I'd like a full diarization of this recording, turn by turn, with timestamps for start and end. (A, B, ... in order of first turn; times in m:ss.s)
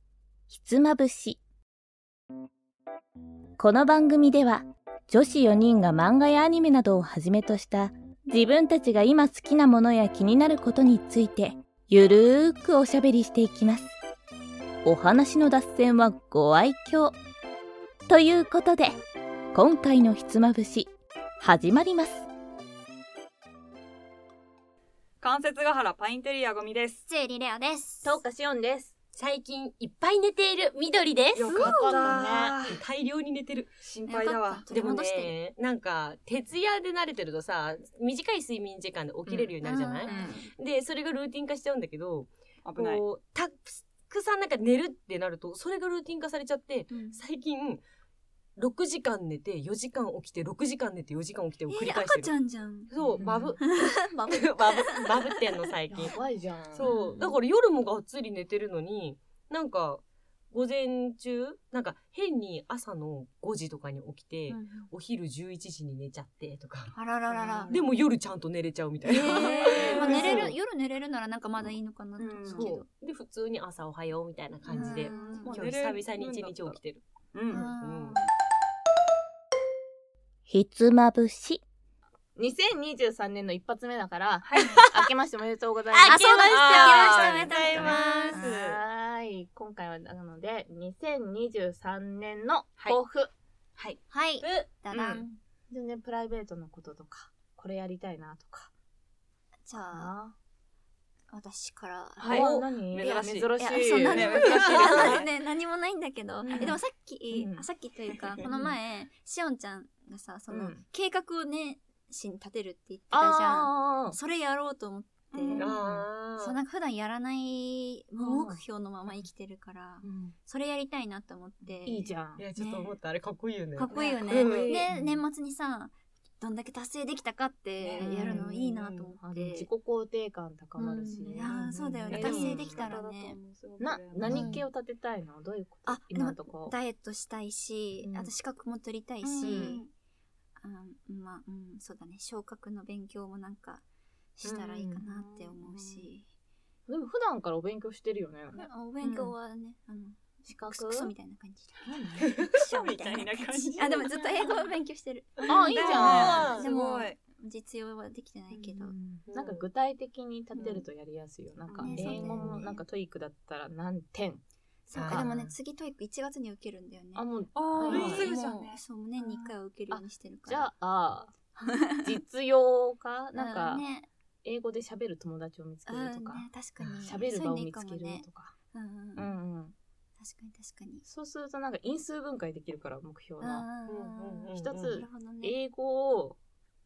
0:00.5-0:01.4 A
0:03.6-0:13.9 A
0:14.8-0:17.2 A
0:18.1-0:19.0 A
0:19.5-0:22.3 A
0:25.2-0:27.0 B
0:27.1-0:28.2 C
0:28.0-0:28.9 D
0:29.2-0:33.7 E
0:31.4-0:32.8 B
0:31.5-0:32.2 C
0:31.6-0:32.5 D
0:33.8-0:34.7 B
0:34.1-0:35.4 C
0:34.7-0:47.8 E
0:39.3-0:39.5 D
0:39.6-0:40.5 C
0:40.0-0:40.4 D
0:42.6-0:43.0 B
0:46.9-0:47.2 C
0:48.6-0:52.3 E
0:51.7-0:52.9 C
0:52.9-0:56.2 E
0:53.1-0:53.6 D
0:53.6-0:55.4 C
0:55.9-0:56.9 D
0:56.7-1:07.0 E
0:56.8-0:57.4 C
1:04.5-1:04.9 C
1:07.0-1:07.8 C
1:07.3-1:08.0 B
1:07.7-1:10.6 E
1:09.0-1:12.9 C
1:09.3-1:10.5 B
1:12.2-1:12.7 B
1:12.5-1:18.2 E
1:14.7-1:15.7 C
1:14.7-1:16.8 B
1:17.3-1:17.7 B
1:17.5-1:18.3 C
1:20.5-1:21.6 A
1:22.4-1:26.2 D
1:24.4-1:24.9 B
1:24.6-1:24.8 C
1:25.9-1:28.5 E
1:26.0-1:28.5 C
1:26.5-1:28.8 B
1:26.8-1:33.3 D
1:34.1-1:35.3 C
1:34.9-1:38.7 D
1:39.7-1:40.1 C
1:39.9-1:40.3 D
1:41.3-1:42.6 C
1:42.2-1:45.3 B
1:42.2-1:45.1 D
1:43.6-1:55.7 C
1:44.4-1:45.2 E
1:46.4-1:46.8 D
1:47.3-1:47.6 D
1:48.5-1:48.8 D
1:50.5-1:50.8 D
1:53.1-1:54.2 D
1:55.3-1:55.8 B
1:55.5-1:56.6 E
1:56.4-2:03.0 C
1:58.2-1:58.6 D
2:00.1-2:00.3 E
2:01.6-2:01.9 B
2:01.9-2:02.4 D
2:02.4-2:04.9 E
2:03.8-2:09.7 C
2:03.9-2:04.9 B
2:07.8-2:08.4 B
2:08.0-2:12.6 D
2:10.8-2:13.4 C
2:11.0-2:14.6 B
2:12.1-2:12.9 E
2:13.8-2:16.8 D
2:14.3-2:14.7 C
2:15.9-2:19.9 C
2:18.0-2:18.3 D
2:19.2-2:19.8 B
2:19.4-2:19.8 D
2:20.6-2:23.8 C
2:24.4-2:26.3 C
2:24.4-2:25.0 D
2:25.0-2:26.1 B
2:26.9-2:28.6 D
2:28.5-2:39.0 C
2:29.0-2:29.3 B
2:30.4-2:31.1 D
2:31.8-2:34.5 B
2:31.9-2:32.3 D
2:33.9-2:34.6 D
2:35.5-2:36.5 D
2:35.5-2:37.2 B
2:35.9-2:36.7 E
2:38.5-2:44.4 D
2:39.3-2:39.7 E
2:40.6-2:40.8 B
2:41.7-2:42.4 B
2:41.8-2:42.8 C
2:41.8-2:42.5 E
2:44.9-2:47.3 C
2:44.9-2:45.6 E
2:47.2-2:48.3 D
2:47.5-2:49.6 B
2:47.8-2:50.7 C
2:47.9-2:48.3 E
2:49.9-2:51.3 D
2:51.6-2:52.2 C
2:52.0-2:53.8 D
2:53.4-2:54.1 C
2:54.4-2:56.5 D
2:55.9-2:59.4 C
2:56.8-2:57.1 E
2:57.0-2:58.5 D
2:59.2-2:59.8 D
3:00.2-3:01.0 C
3:01.0-3:03.7 D
3:03.4-3:05.6 C
3:03.9-3:05.0 E
3:04.6-3:06.4 D